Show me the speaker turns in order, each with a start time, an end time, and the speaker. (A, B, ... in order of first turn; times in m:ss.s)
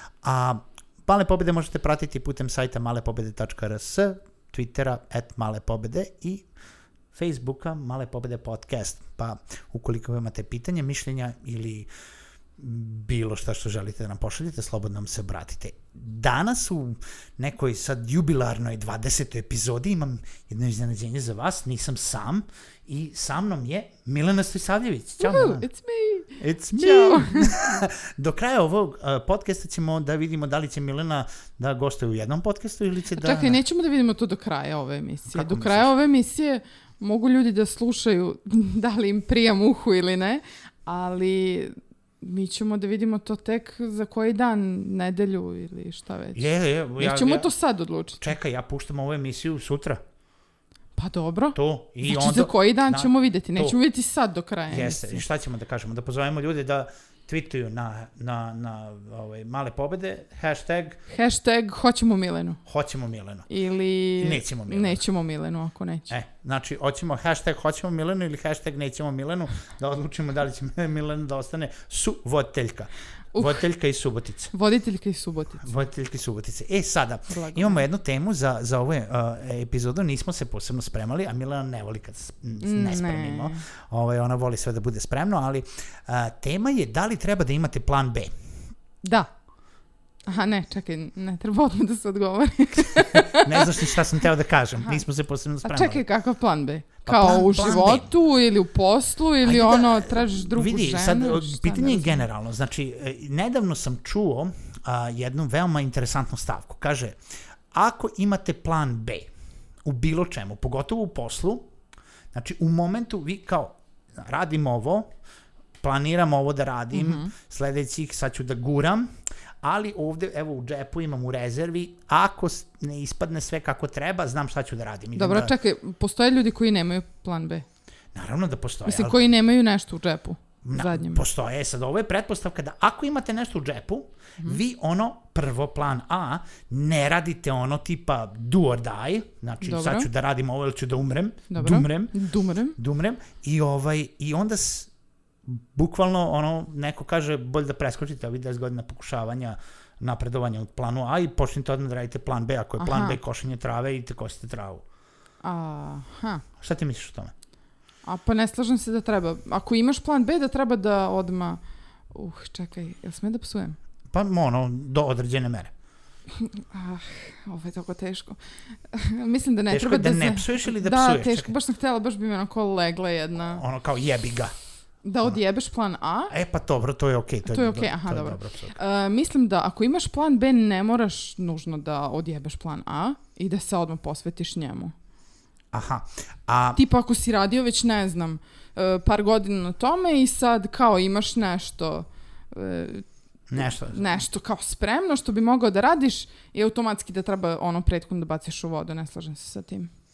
0:00.2-0:06.5 A
0:07.1-0:11.9 A
0:12.6-0:25.7 A
0:25.2-0:27.6 B
0:26.4-0:33.6 A
0:33.1-0:46.4 B
0:35.3-0:35.9 A
0:46.3-0:47.5 A
0:47.0-0:48.3 B
0:48.2-0:50.0 A
0:51.0-0:55.2 B
0:51.6-0:53.8 A
0:54.7-1:01.0 A
1:01.1-1:02.6 B
1:02.7-1:03.5 A
1:03.5-1:06.1 B
1:04.2-1:05.0 A
1:06.1-1:14.5 A
1:13.4-1:13.6 B
1:14.5-1:15.7 B
1:15.6-1:28.3 A
1:17.3-1:17.9 B
1:22.6-1:23.6 B
1:29.0-1:29.3 B
1:30.3-1:33.9 B
1:33.2-1:36.0 A
1:35.6-1:42.2 B
1:37.1-1:38.1 A
1:39.4-1:47.2 A
1:47.7-1:49.3 A
1:49.8-1:51.7 A
1:52.3-1:55.1 A
1:55.8-1:59.1 A
1:56.9-1:57.3 B
1:59.6-2:05.5 A
2:05.2-2:07.6 B
2:08.1-2:09.2 A
2:08.9-2:11.2 B
2:10.6-2:22.2 A
2:19.6-2:20.1 B
2:21.5-2:22.8 B
2:22.8-2:24.9 A
2:25.4-2:34.8 A
2:32.8-2:33.2 B
2:35.4-2:36.4 B
2:36.6-2:37.3 A
2:38.1-2:41.6 B
2:42.1-2:43.8 B
2:44.1-2:45.7 A
2:46.3-2:48.4 B
2:48.9-2:53.6 B
2:49.7-2:51.5 A
2:53.4-2:54.5 A
2:55.0-2:56.3 B
2:56.3-2:58.8 A
2:57.5-3:04.9 B
3:05.7-3:06.8 A
3:06.8-3:19.9 B
3:13.5-3:14.2 A